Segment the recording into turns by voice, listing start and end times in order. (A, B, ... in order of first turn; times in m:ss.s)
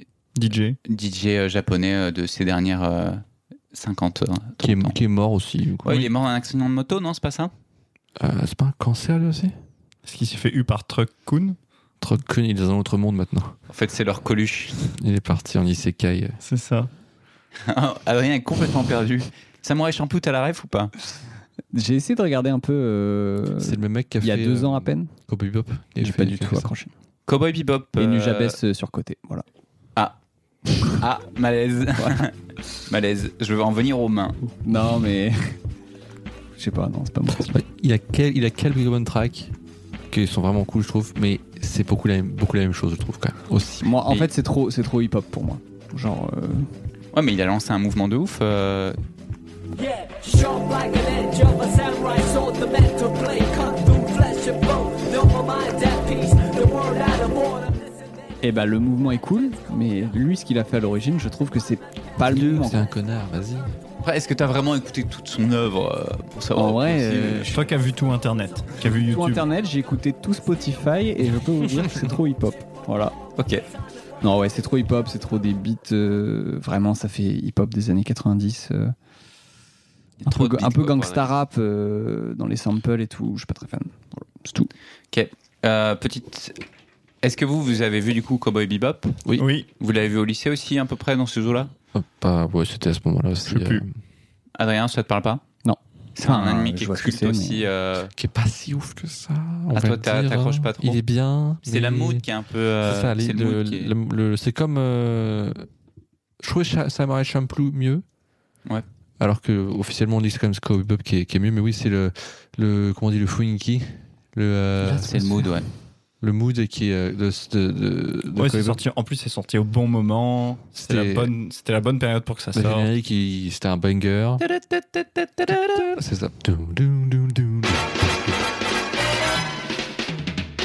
0:00.4-0:00.8 A
0:00.9-0:05.0 B
0:04.6-0:05.9 C
0:05.8-0:07.5 B
0:08.2-0:09.6 C
0:10.0-0:11.6 A
0:12.0-0:13.6 C
0:13.7-0:15.0 B
0:15.0-0:16.4 C
0:16.4-0:16.9 A
0:17.6-0:20.9 B
0:21.7-0:25.1 D
0:23.6-0:26.7 C
0:26.0-0:26.9 D
0:27.3-0:28.6 B
0:28.0-0:29.4 D
0:30.8-0:32.3 B
0:32.9-0:34.4 B
0:34.5-0:35.6 D
0:36.6-0:37.6 D
0:37.5-0:39.6 C
0:40.1-0:43.8 C
0:43.8-0:46.7 D
0:47.1-0:49.0 B
0:49.8-0:57.9 E
0:58.4-1:02.8 D
1:02.2-1:03.7 C
1:04.0-1:07.7 B
1:06.6-1:07.5 D
1:07.5-1:09.4 A
1:08.8-1:13.2 D
1:13.4-1:13.6 B
1:14.2-1:18.9 D
1:20.2-1:21.3 B
1:20.3-1:24.7 D
1:25.1-1:26.6 B
1:27.2-1:29.2 B
1:29.4-1:29.7 A
1:29.8-1:31.7 B
1:31.9-1:33.9 C
1:33.5-1:33.8 A
1:34.6-1:35.4 B
1:35.6-1:37.6 D
1:36.2-1:38.1 B
1:38.2-1:42.2 C
1:39.7-1:41.0 B
1:41.6-1:43.9 B
1:42.8-1:45.7 C
1:46.4-1:48.0 C
1:49.2-1:55.5 C
1:54.9-1:55.7 B
1:56.2-1:58.8 C
1:58.4-2:02.9 A
2:00.8-2:01.3 C
2:02.5-2:04.4 C
2:04.4-2:05.9 B
2:05.5-2:08.1 C